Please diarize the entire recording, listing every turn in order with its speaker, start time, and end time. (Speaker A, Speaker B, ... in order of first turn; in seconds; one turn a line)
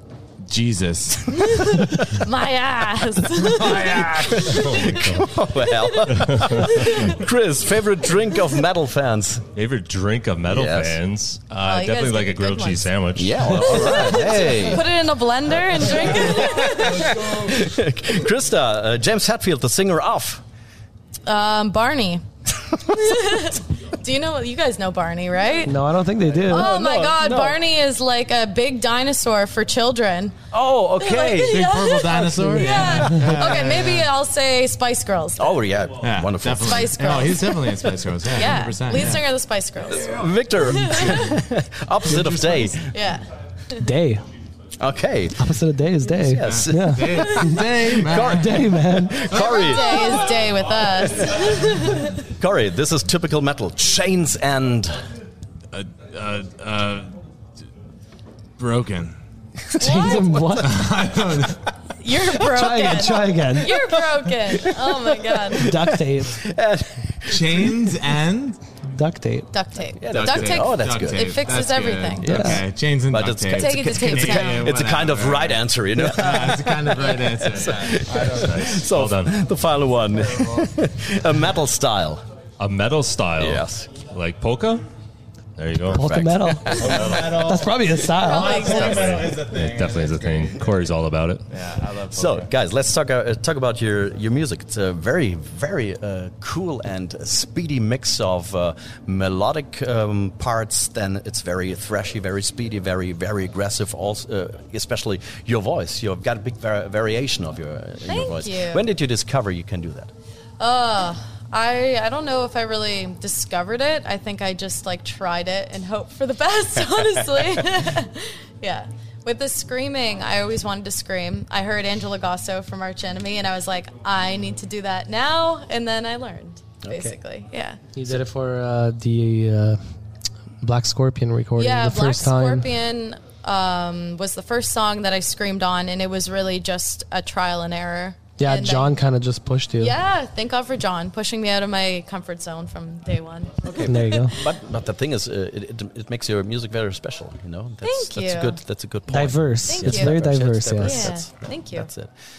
Speaker A: 0.5-1.3
Speaker B: 1.4-5.2
Speaker A: 3.4-4.9
Speaker C: 3.9-9.4
Speaker D: 4.5-5.2
Speaker B: 5.8-7.2
Speaker D: 6.4-6.7
Speaker D: 9.5-14.3
Speaker C: 10.5-11.0
Speaker B: 11.6-17.2
Speaker C: 13.1-14.8
Speaker C: 16.1-20.4
Speaker B: 21.2-22.2
Speaker B: 22.9-25.8
Speaker E: 25.6-26.7
Speaker C: 26.4-27.6
Speaker B: 26.4-30.3
Speaker C: 30.5-33.5
Speaker B: 31.0-35.5
Speaker A: 31.4-34.1
Speaker C: 35.4-37.0
Speaker A: 36.0-39.2
Speaker B: 36.6-41.4
Speaker C: 39.9-42.9
Speaker A: 42.1-42.7
Speaker B: 42.6-43.9
Speaker E: 43.8-44.2
Speaker C: 44.8-45.5
Speaker E: 45.4-47.7
Speaker C: 46.1-50.1
Speaker A: 46.4-48.7
Speaker E: 48.2-49.4
Speaker B: 49.3-52.1
Speaker A: 49.4-50.2
Speaker C: 52.3-54.9
Speaker A: 55.7-57.1
Speaker A: 58.6-59.1
Speaker E: 59.7-60.8
Speaker B: 59.8-60.4
Speaker C: 60.0-60.5
Speaker A: 60.6-61.6
Speaker B: 62.0-65.7
Speaker E: 62.5-63.7
Speaker C: 64.6-64.9
Speaker C: 65.4-68.0
Speaker E: 65.6-66.4
Speaker A: 67.3-68.6
Speaker E: 68.8-69.5
Speaker B: 69.5-72.6
Speaker C: 70.0-71.4
Speaker A: 70.1-78.6
Speaker E: 72.2-72.6
Speaker C: 73.0-82.2
Speaker B: 73.5-74.7
Speaker D: 78.3-79.3
Speaker A: 80.3-80.7
Speaker D: 82.6-84.8
Speaker C: 83.4-83.9
Speaker D: 85.6-87.4
Speaker C: 85.9-87.2
Speaker E: 85.9-88.7
Speaker A: 86.6-90.9
Speaker B: 88.2-89.3
Speaker D: 88.6-91.4
Speaker A: 91.5-92.5
Speaker C: 92.0-110.1
Speaker B: 108.0-108.8
Speaker B: 110.6-127.8
Speaker C: 126.8-127.1
Speaker E: 127.9-129.8
Speaker E: 130.6-132.7
Speaker B: 131.6-138.9
Speaker E: 138.4-139.9
Speaker B: 139.8-144.3
Speaker C: 143.7-152.1
Speaker E: 143.8-144.3
Speaker B: 147.8-148.6
Speaker E: 149.1-151.1
Speaker B: 149.6-150.2
Speaker B: 150.8-151.9